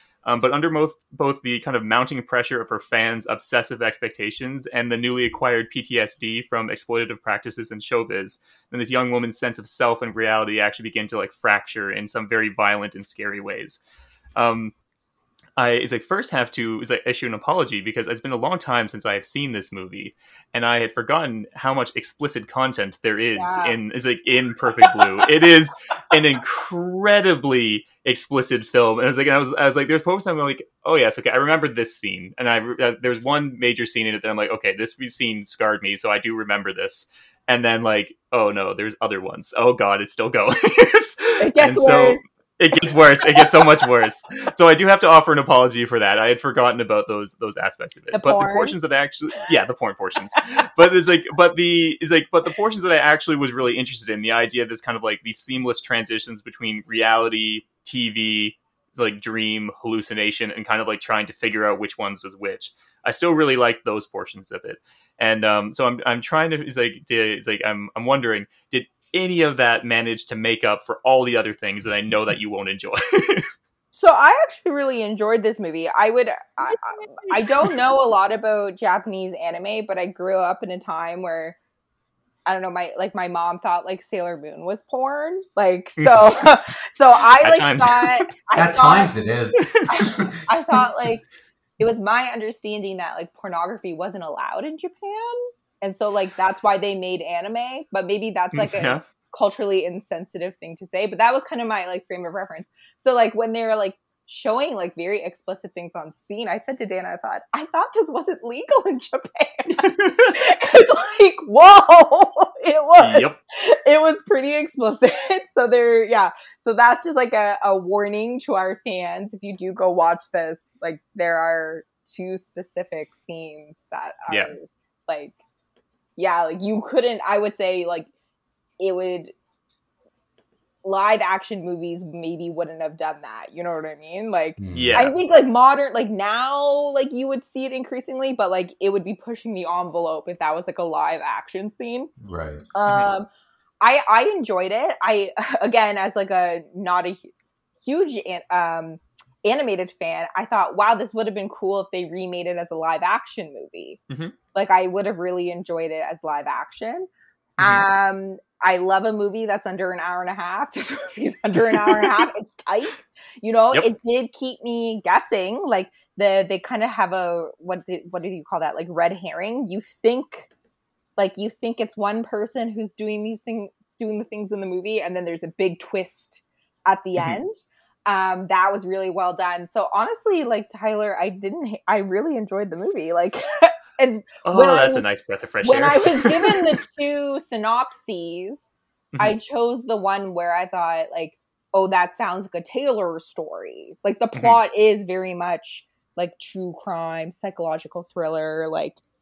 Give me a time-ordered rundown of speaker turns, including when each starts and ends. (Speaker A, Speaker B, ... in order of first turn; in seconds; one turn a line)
Speaker A: 0.2-13.8
Speaker A: 14.3-14.7
Speaker A: 15.6-73.5
Speaker B: 23.4-23.8
Speaker B: 41.4-42.2
Speaker B: 43.4-43.8
Speaker B: 48.1-48.8
Speaker B: 73.9-81.6
Speaker B: 82.5-89.1
Speaker A: 86.0-86.5
Speaker A: 87.3-88.3
Speaker C: 88.5-90.3
Speaker A: 89.6-89.9
Speaker B: 89.8-91.2
Speaker B: 91.8-125.3
Speaker A: 98.5-99.0
Speaker A: 109.8-110.3
Speaker A: 113.0-113.4
Speaker B: 126.2-128.1
Speaker B: 128.8-129.3
Speaker B: 130.8-142.1
Speaker C: 134.6-135.1
Speaker A: 134.7-135.1
Speaker C: 142.2-142.7
Speaker B: 142.7-143.3
Speaker B: 143.8-147.3
Speaker B: 147.8-154.0
Speaker A: 154.1-154.3
Speaker B: 154.5-170.5
Speaker A: 157.6-157.8
Speaker B: 171.2-185.1
Speaker A: 184.4-186.8
Speaker B: 185.6-188.6
Speaker B: 189.2-199.0